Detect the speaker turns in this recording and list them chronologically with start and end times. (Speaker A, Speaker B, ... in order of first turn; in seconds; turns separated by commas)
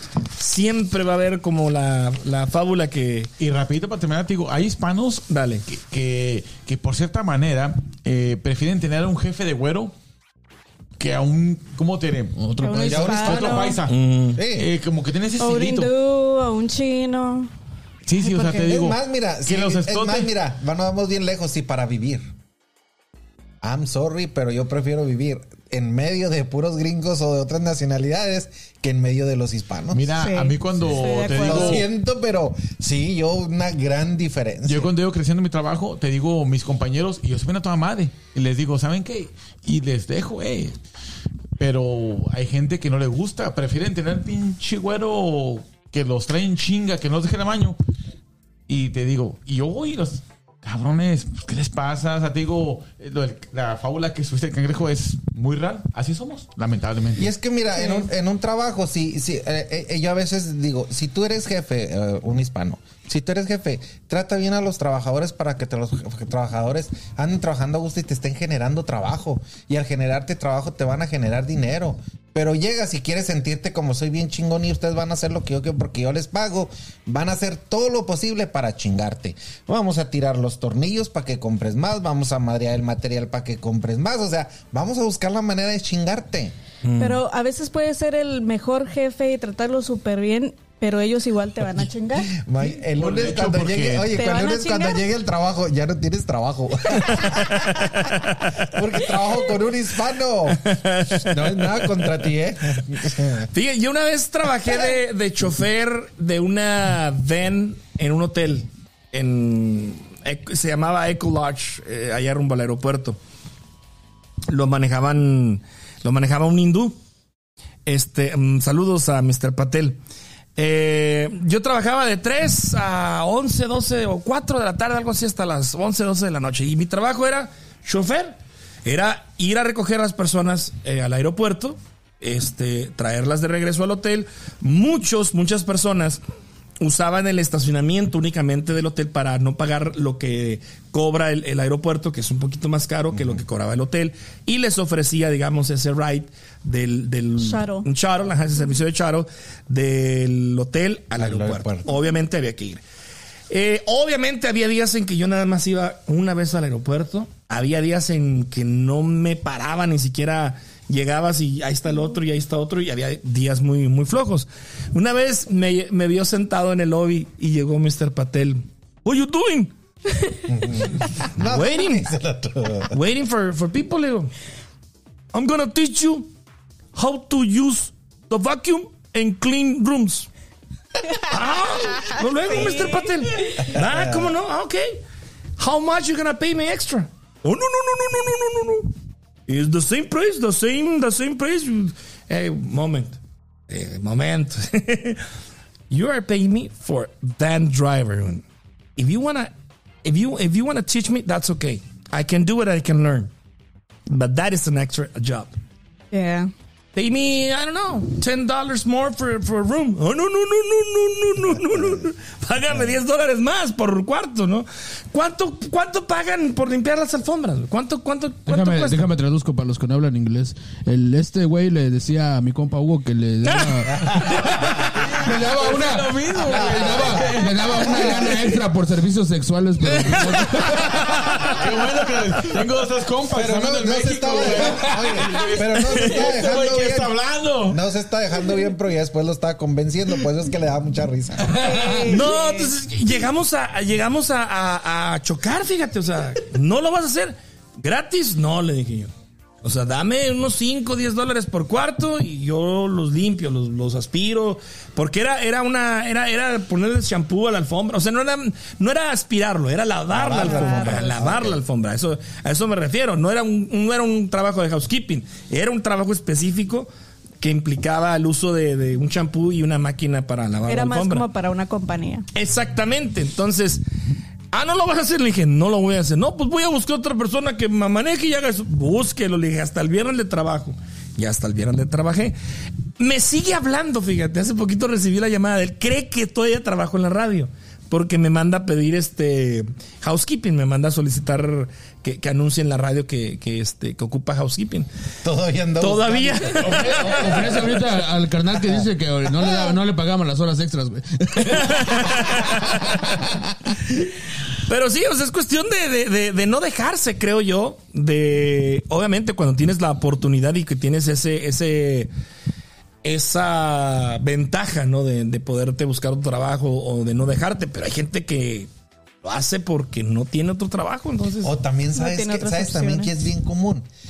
Speaker A: 0.3-3.3, Speaker B: 3.4-9.9, Speaker A: 5.3-5.6, Speaker B: 11.0-12.4, Speaker C: 12.3-13.2, Speaker D: 12.6-13.8, Speaker E: 12.9-13.7, Speaker B: 12.9-15.9, Speaker A: 13.9-14.4, Speaker E: 14.3-14.7, Speaker D: 15.4-17.5, Speaker B: 18.1-20.3, Speaker D: 18.2-18.7, Speaker E: 18.5-22.2, Speaker E: 23.6-30.0, Speaker B: 29.9-31.9, Speaker D: 30.2-31.8, Speaker E: 31.4-34.9, Speaker B: 34.6-40.8, Speaker B: 41.6-47.8, Speaker B: 48.7-57.3, Speaker E: 57.1-86.5, Speaker D: 57.8-58.1, Speaker A: 86.8-87.2, Speaker D: 87.0-92.3, Speaker E: 92.3-100.6, Speaker B: 92.6-94.1, Speaker D: 94.1-95.0, Speaker D: 97.0-97.8, Speaker A: 97.9-98.6, Speaker A: 100.5-102.0, Speaker E: 101.1-103.5, Speaker A: 103.5-113.2, Speaker A: 114.5-117.0, Speaker A: 117.8-120.0, Speaker A: 120.5-136.2, Speaker A: 136.8-152.8, Speaker E: 143.1-143.4, Speaker D: 147.4-147.8, Speaker E: 151.2-151.9, Speaker A: 153.5-169.7, Speaker E: 170.5-172.9, Speaker A: 171.4-172.1, Speaker A: 172.9-174.3, Speaker A: 175.3-176.3, Speaker A: 176.9-180.3, Speaker A: 181.2-185.0, Speaker D: 182.5-183.6, Speaker E: 183.7-184.3, Speaker A: 185.6-188.9, Speaker A: 189.5-193.2, Speaker A: 193.7-195.2, Speaker A: 195.9-198.4, Speaker A: 198.9-199.5, Speaker A: 200.0-203.3, Speaker A: 204.1-205.5, Speaker D: 206.1-206.5, Speaker A: 206.9-219.1, Speaker C: 218.4-231.6, Speaker A: 223.4-224.3, Speaker E: 223.9-224.3, Speaker B: 224.7-228.4, Speaker E: 226.5-227.3, Speaker E: 227.8-228.2, Speaker A: 230.0-231.6, Speaker B: 231.5-237.8, Speaker E: 233.3-237.1, Speaker E: 237.7-241.6, Speaker C: 241.4-242.2, Speaker D: 241.6-242.7, Speaker A: 242.1-249.1, Speaker A: 249.6-266.9, Speaker E: 260.1-261.6, Speaker D: 260.3-261.0, Speaker A: 267.4-271.2, Speaker D: 270.7-272.3, Speaker A: 272.3-273.8, Speaker A: 274.5-282.4, Speaker A: 283.0-294.9, Speaker E: 295.2-297.7, Speaker A: 295.8-297.6, Speaker C: 296.6-303.6, Speaker E: 298.6-298.9, Speaker A: 301.4-303.2, Speaker A: 304.6-312.1, Speaker A: 313.0-318.7, Speaker A: 319.2-321.5, Speaker E: 321.4-323.9, Speaker D: 321.9-323.1